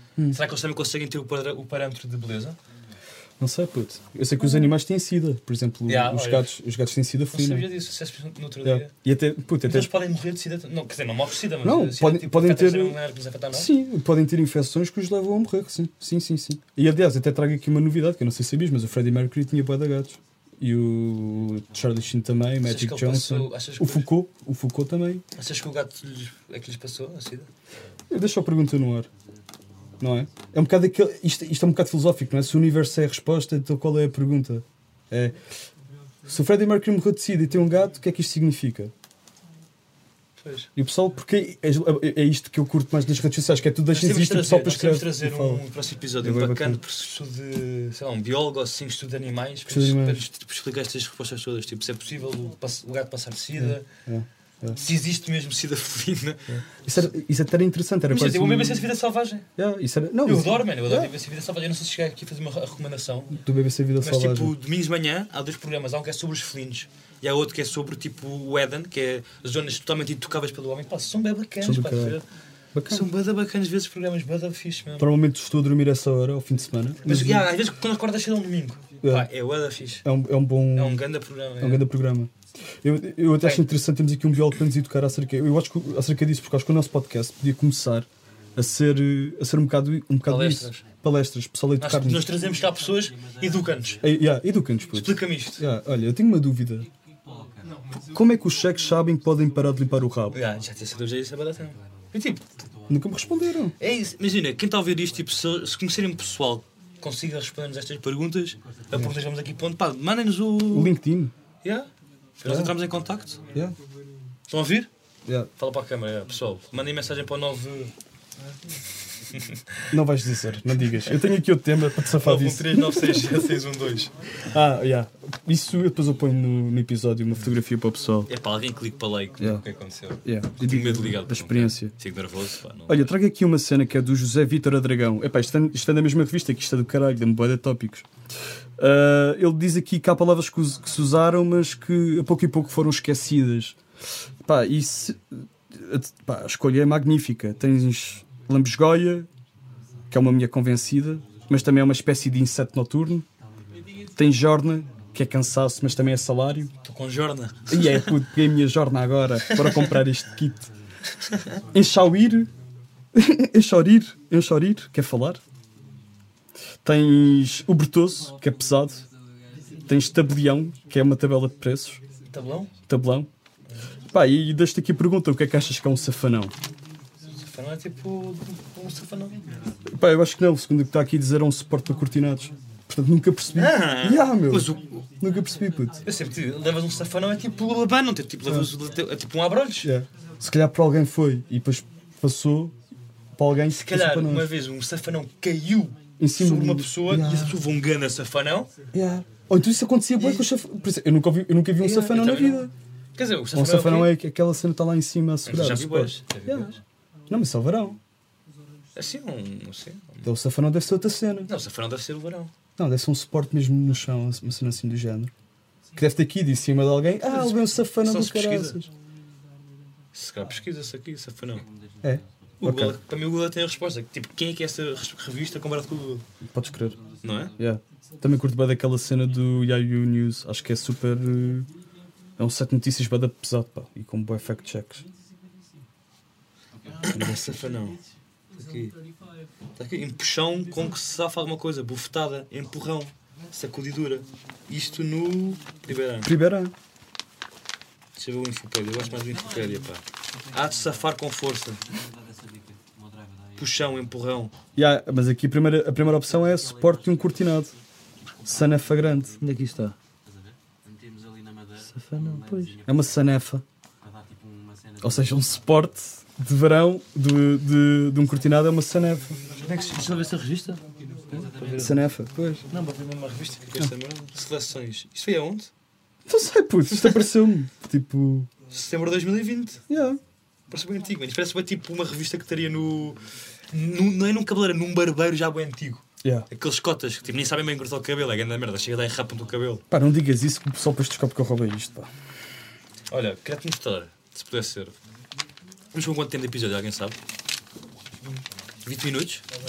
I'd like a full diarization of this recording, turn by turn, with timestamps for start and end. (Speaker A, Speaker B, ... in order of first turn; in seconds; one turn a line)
Speaker A: 0.3-2.6
Speaker B: 3.4-7.7
Speaker A: 5.9-6.5
Speaker A: 7.3-8.9
Speaker B: 8.6-9.9
Speaker A: 9.6-13.7
Speaker B: 11.6-13.0
Speaker B: 13.5-25.2
Speaker A: 22.6-24.1
Speaker A: 25.4-27.5
Speaker B: 28.1-29.1
Speaker B: 30.0-35.4
Speaker B: 36.3-38.9
Speaker A: 40.4-40.7
Speaker B: 40.8-45.6
Speaker A: 43.9-53.9
Speaker B: 46.2-46.8
Speaker B: 49.7-50.2
Speaker B: 53.6-54.8
Speaker A: 54.7-57.1
Speaker B: 56.5-58.9
Speaker A: 58.1-59.5
Speaker B: 59.6-61.1
Speaker A: 60.2-63.4
Speaker B: 63.4-64.5
Speaker A: 64.0-72.2
Speaker B: 71.6-72.2
Speaker B: 72.7-73.0
Speaker A: 72.8-75.1
Speaker B: 75.0-77.5
Speaker A: 77.0-80.0
Speaker B: 79.0-79.3
Speaker B: 80.0-81.0
Speaker A: 80.7-81.8
Speaker B: 81.6-92.2
Speaker A: 83.4-83.7
Speaker A: 90.2-90.8
Speaker A: 91.8-94.1
Speaker C: 93.2-93.8
Speaker B: 94.0-96.9
Speaker A: 94.9-95.6
Speaker C: 97.2-97.7
Speaker B: 98.1-100.4
Speaker A: 100.3-102.4
Speaker B: 102.9-103.7
Speaker A: 103.8-110.9
Speaker B: 110.7-111.3
Speaker A: 111.6-113.4
Speaker B: 112.4-112.7
Speaker A: 114.5-114.9
Speaker A: 115.6-117.9
Speaker A: 119.3-119.9
Speaker B: 119.9-123.6
Speaker A: 120.8-121.3
Speaker A: 122.0-124.1
Speaker B: 124.5-128.3
Speaker A: 128.3-133.1
Speaker B: 130.2-131.9
Speaker B: 132.9-138.1
Speaker B: 138.8-143.8
Speaker B: 144.4-149.3
Speaker B: 150.1-153.2
Speaker B: 154.2-156.7
Speaker A: 156.8-158.1
Speaker B: 157.7-160.7
Speaker A: 159.4-160.0
Speaker A: 161.2-161.5
Speaker B: 161.7-162.5
Speaker B: 163.1-165.4
Speaker B: 166.8-169.0
Speaker B: 169.9-172.0
Speaker A: 172.3-172.7
Speaker B: 172.9-173.3
Speaker B: 174.1-176.5
Speaker A: 177.3-179.4
Speaker B: 179.8-186.0
Speaker A: 183.5-185.1
Speaker A: 186.0-189.9
Speaker B: 188.4-188.7
Speaker B: 189.8-192.7
Speaker B: 193.3-194.5
Speaker A: 193.7-198.7
Speaker B: 196.2-197.6
Speaker B: 198.9-202.7
Speaker A: 200.2-200.5
Speaker A: 201.8-204.1
Speaker B: 203.5-206.7
Speaker A: 205.4-206.8
Speaker B: 207.3-208.0
Speaker A: 208.9-210.3
Speaker B: 210.2-211.5
Speaker A: 211.5-212.5
Speaker B: 212.8-215.3
Speaker B: 215.9-218.9
Speaker A: 217.3-218.8
Speaker A: 220.1-221.6
Speaker C: 221.7-222.2
Speaker B: 222.0-223.0
Speaker A: 222.6-226.2
Speaker B: 226.5-227.0
Speaker A: 227.2-227.5
Speaker B: 227.6-231.7
Speaker B: 232.4-235.0
Speaker A: 237.0-238.0
Speaker B: 237.0-237.4
Speaker A: 238.5-238.9
Speaker A: 239.8-246.3
Speaker B: 246.2-246.7
Speaker A: 248.2-251.8
Speaker C: 251.9-253.7
Speaker A: 253.6-254.5
Speaker B: 254.8-257.7
Speaker C: 256.3-257.6
Speaker B: 258.4-259.4
Speaker A: 259.4-259.9
Speaker C: 260.2-263.2
Speaker A: 261.9-262.8
Speaker B: 262.9-263.6
Speaker C: 264.0-265.6
Speaker B: 265.0-269.4
Speaker A: 269.6-272.0
Speaker C: 271.3-271.9
Speaker B: 271.8-272.6
Speaker A: 272.7-275.7
Speaker B: 276.3-278.5
Speaker A: 276.9-277.2
Speaker A: 278.7-279.8
Speaker B: 279.9-280.2
Speaker A: 280.7-283.2
Speaker A: 283.7-289.8
Speaker B: 289.9-292.1
Speaker A: 293.1-294.9
Speaker A: 295.9-297.2
Speaker A: 298.8-299.4